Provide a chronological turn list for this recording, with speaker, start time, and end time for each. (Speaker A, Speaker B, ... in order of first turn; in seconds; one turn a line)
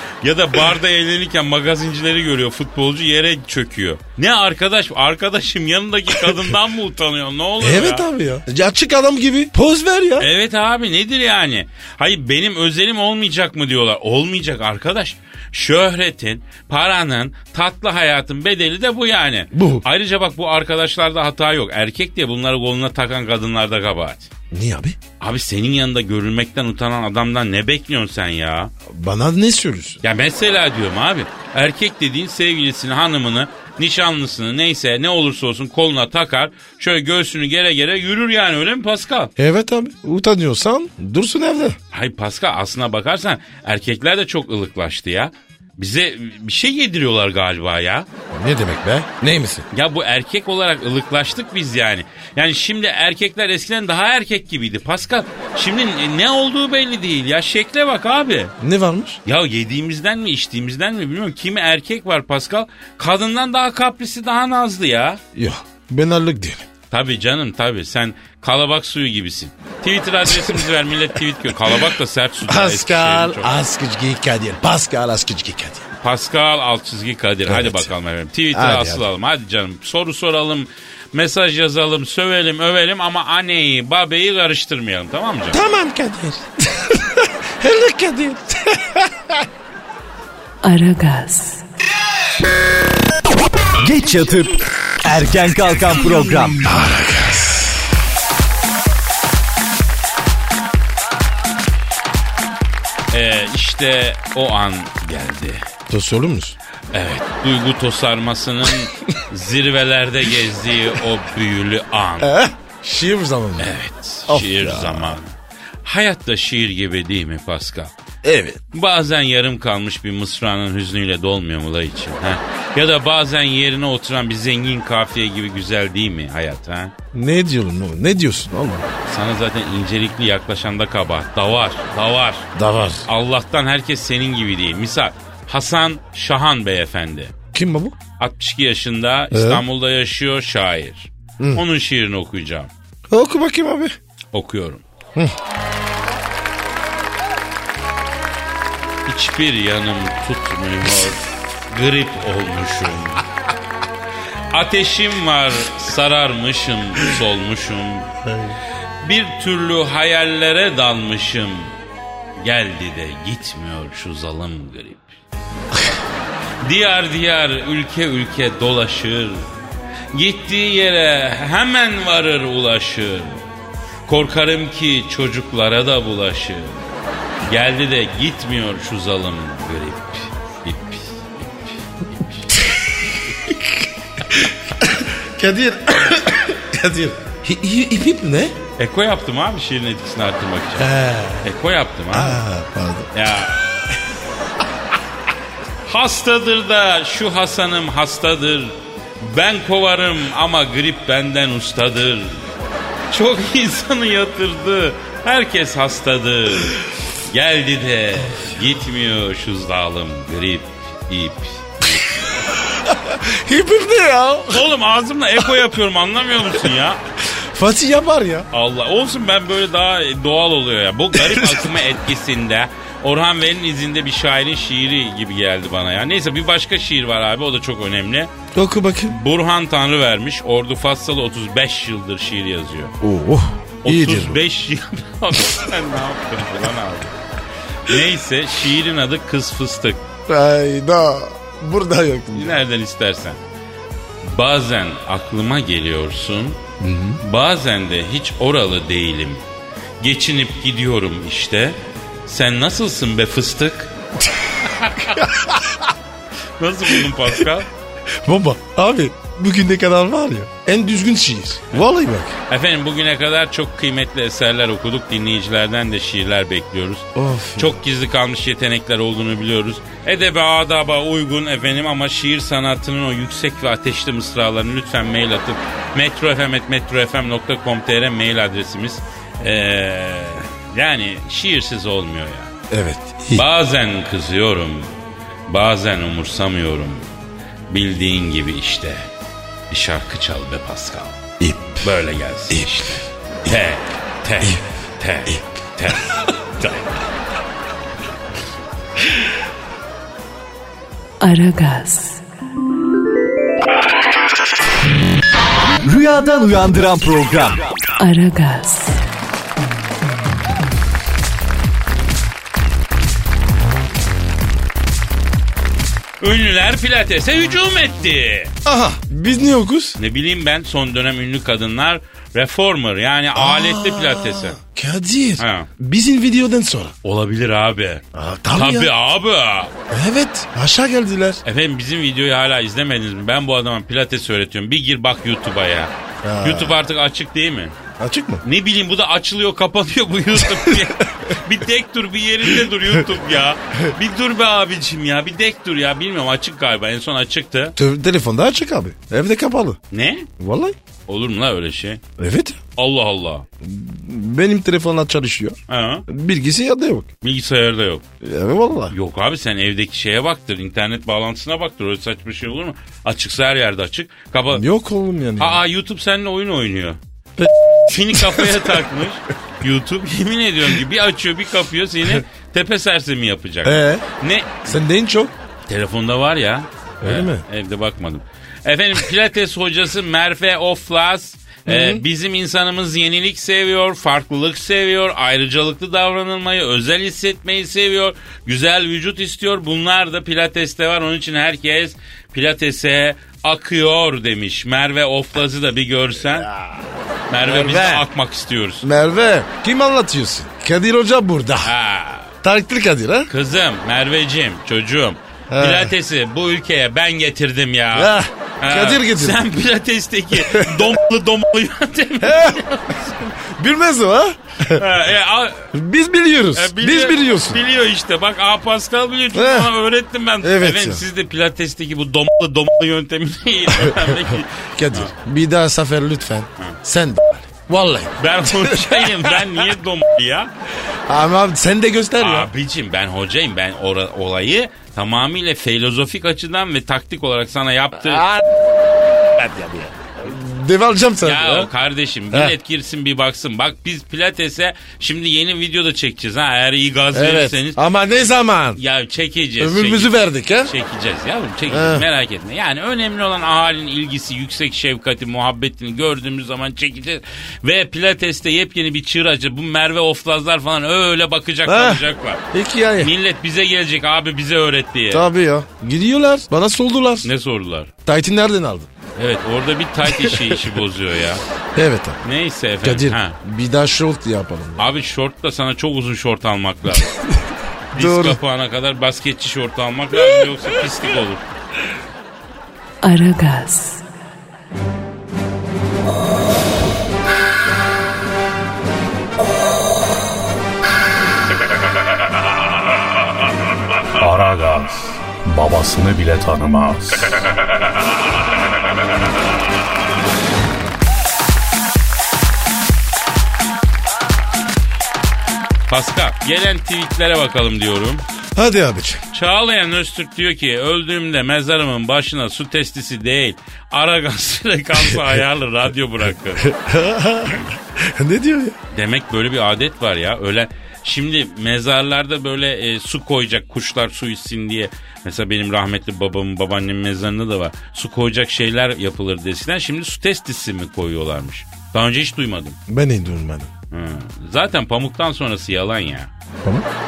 Speaker A: 0.2-8.1
Speaker B: 7.6-10.3
Speaker A: 10.2-24.3
Speaker B: 19.5-19.8
Speaker B: 24.5-25.0
Speaker A: 25.2-28.7
Speaker B: 28.9-30.0
Speaker A: 30.0-39.3
Speaker B: 39.4-41.8
Speaker A: 41.9-48.1
Speaker B: 48.3-49.7
Speaker A: 49.7-58.5
Speaker B: 58.6-59.2
Speaker A: 59.2-65.2
Speaker B: 65.3-66.7
Speaker A: 66.9-73.5
Speaker B: 70.3-70.6
Speaker B: 72.5-75.8
Speaker A: 76.0-85.6
Speaker B: 77.5-77.9
Speaker B: 78.5-79.0
Speaker B: 85.5-89.5
Speaker C: 90.6-91.7
Speaker D: 93.8-96.6
Speaker B: 96.6-97.8
Speaker A: 103.1-105.6
Speaker B: 105.9-106.5
Speaker A: 106.9-112.3
Speaker B: 112.2-113.7
Speaker A: 113.6-117.9
Speaker B: 114.3-115.2
Speaker B: 118.2-118.6
Speaker A: 118.7-126.9
Speaker B: 127.1-128.9
Speaker A: 129.1-132.5
Speaker B: 132.6-133.1
Speaker A: 133.1-137.3
Speaker B: 137.5-138.0
Speaker A: 138.2-142.7
Speaker B: 139.3-139.6
Speaker B: 143.1-143.9
Speaker A: 144.3-144.8
Speaker A: 149.1-153.2
Speaker A: 154.5-158.1
Speaker B: 158.2-158.5
Speaker A: 159.0-161.7
Speaker A: 162.4-165.1
Speaker A: 166.6-169.4
Speaker A: 170.1-173.4
Speaker A: 174.1-176.8
Speaker A: 177.4-182.6
Speaker B: 184.3-188.6
Speaker A: 188.8-190.9
Speaker B: 190.8-191.5
Speaker A: 191.4-192.4
Speaker B: 192.1-193.1
Speaker A: 193.1-193.6
Speaker A: 195.8-202.4
Speaker A: 203.1-212.0
Speaker B: 212.5-214.7
Speaker A: 214.5-217.0
Speaker B: 217.2-218.5
Speaker A: 218.5-228.3
Speaker B: 221.1-221.7
Speaker B: 228.5-229.2
Speaker A: 229.1-232.9
Speaker B: 233.0-234.4
Speaker A: 233.8-237.1
Speaker A: 237.8-240.0
Speaker B: 240.3-242.5
Speaker A: 242.3-243.4
Speaker A: 244.2-246.6
Speaker B: 246.8-247.2
Speaker A: 247.2-249.4
Speaker A: 250.0-253.9
Speaker A: 254.6-255.3
Speaker B: 255.0-255.9
Speaker A: 256.6-257.7
Speaker B: 258.2-262.4
Speaker A: 262.5-282.5
Speaker B: 267.1-267.8
Speaker B: 282.7-283.5
Speaker A: 283.3-284.9
Speaker A: 285.5-287.1
Speaker A: 287.7-289.1
Speaker A: 289.7-291.2
Speaker B: 291.4-291.8
Speaker A: 291.8-296.9
Speaker B: 292.5-292.9
Speaker C: 301.2-302.2
Speaker D: 305.8-307.6
Speaker C: 307.9-309.0
Speaker A: 316.2-318.5
Speaker B: 318.6-320.0
Speaker A: 320.0-324.6
Speaker B: 323.3-326.9
Speaker A: 325.4-325.7
Speaker A: 327.0-328.0
Speaker B: 328.1-328.9
Speaker A: 328.6-329.7
Speaker B: 329.9-331.4
Speaker A: 331.4-335.9
Speaker B: 336.2-336.8
Speaker A: 336.4-337.8
Speaker B: 338.0-338.4
Speaker A: 338.4-347.7
Speaker B: 340.4-341.1
Speaker B: 347.8-349.8
Speaker A: 349.9-350.3
Speaker B: 350.4-350.7
Speaker A: 351.1-352.0
Speaker B: 352.2-352.6
Speaker A: 352.8-353.4
Speaker B: 353.6-357.1
Speaker A: 355.7-356.1
Speaker A: 357.2-358.0
Speaker B: 358.2-358.9
Speaker A: 358.9-364.6
Speaker B: 364.5-365.6
Speaker A: 365.4-367.0
Speaker B: 367.4-368.8
Speaker A: 367.9-374.8
Speaker B: 373.6-374.0
Speaker B: 374.7-375.3
Speaker A: 375.7-396.5
Speaker B: 377.0-377.4
Speaker B: 381.7-382.0
Speaker B: 396.3-396.9
Speaker A: 397.3-398.9
Speaker B: 397.4-398.0
Speaker B: 398.8-401.7
Speaker A: 401.6-402.3
Speaker B: 402.4-403.3
Speaker A: 403.3-413.3
Speaker B: 405.5-405.9
Speaker B: 407.9-409.4
Speaker B: 410.3-410.9
Speaker B: 412.2-414.8
Speaker A: 414.7-415.7
Speaker B: 415.7-417.6
Speaker A: 416.5-425.1
Speaker B: 419.3-419.7
Speaker B: 420.4-421.1
Speaker B: 423.7-429.5
Speaker A: 428.2-430.5
Speaker B: 431.1-432.5
Speaker A: 432.2-438.2
Speaker B: 438.0-441.7
Speaker A: 441.2-447.8
Speaker B: 442.3-442.6
Speaker B: 447.1-448.8
Speaker A: 448.8-462.4
Speaker B: 449.6-450.7
Speaker B: 451.7-452.1
Speaker B: 461.6-463.1
Speaker A: 463.0-465.3
Speaker B: 465.1-467.3
Speaker A: 467.2-467.9
Speaker B: 468.0-468.9
Speaker A: 469.1-471.4
Speaker B: 470.1-470.8
Speaker B: 471.7-472.2
Speaker A: 472.2-473.4
Speaker B: 472.8-474.9
Speaker A: 474.8-477.1
Speaker B: 477.1-477.4
Speaker A: 477.9-481.4
Speaker B: 477.9-478.4
Speaker C: 483.0-484.0
Speaker E: 494.2-497.5
Speaker A: 505.9-508.2
Speaker B: 508.5-509.2
Speaker A: 509.3-516.7
Speaker B: 516.6-518.8
Speaker A: 518.9-532.8
Speaker B: 532.9-533.7
Speaker A: 533.9-536.3